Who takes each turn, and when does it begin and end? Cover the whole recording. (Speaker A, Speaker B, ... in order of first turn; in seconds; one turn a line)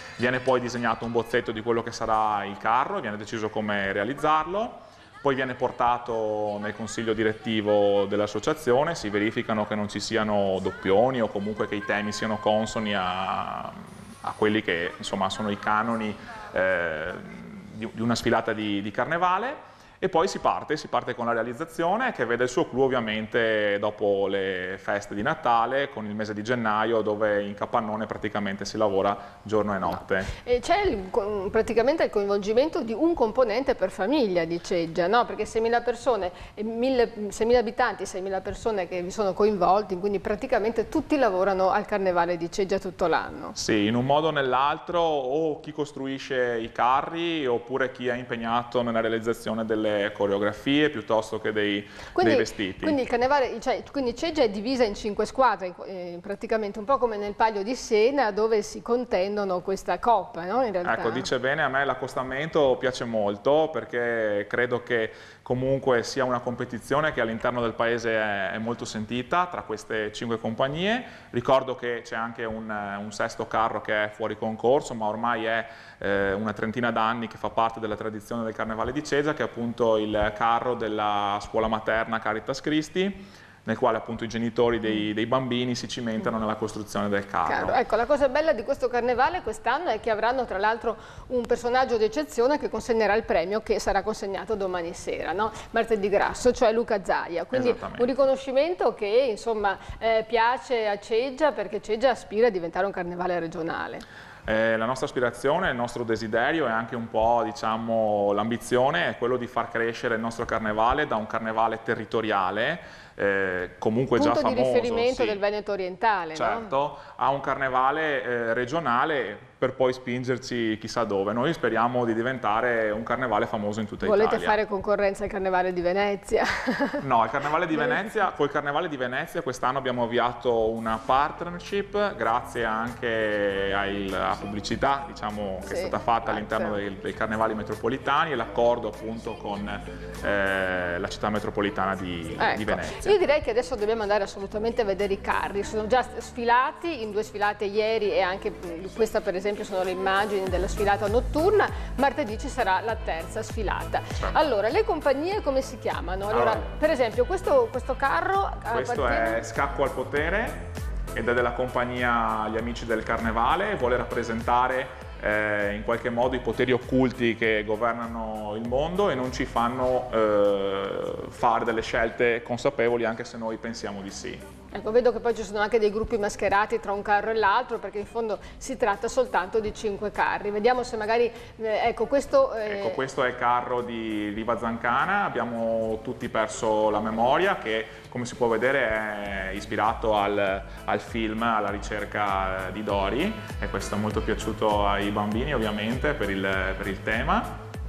Speaker A: 0.2-30.3
Speaker B: 30.3-43.6
Speaker A: 43.5-53.0
Speaker B: 52.2-61.3
Speaker A: 60.8-87.8
Speaker B: 87.5-104.0
Speaker A: 97.5-98.1
Speaker A: 104.5-115.4
Speaker B: 114.2-116.7
Speaker A: 116.3-124.6
Speaker B: 124.0-127.0
Speaker A: 127.0-143.2
Speaker B: 127.7-128.0
Speaker B: 135.7-136.8
Speaker B: 142.4-159.4
Speaker A: 156.3-156.6
Speaker A: 158.7-174.4
Speaker B: 174.7-183.0
Speaker A: 182.7-197.6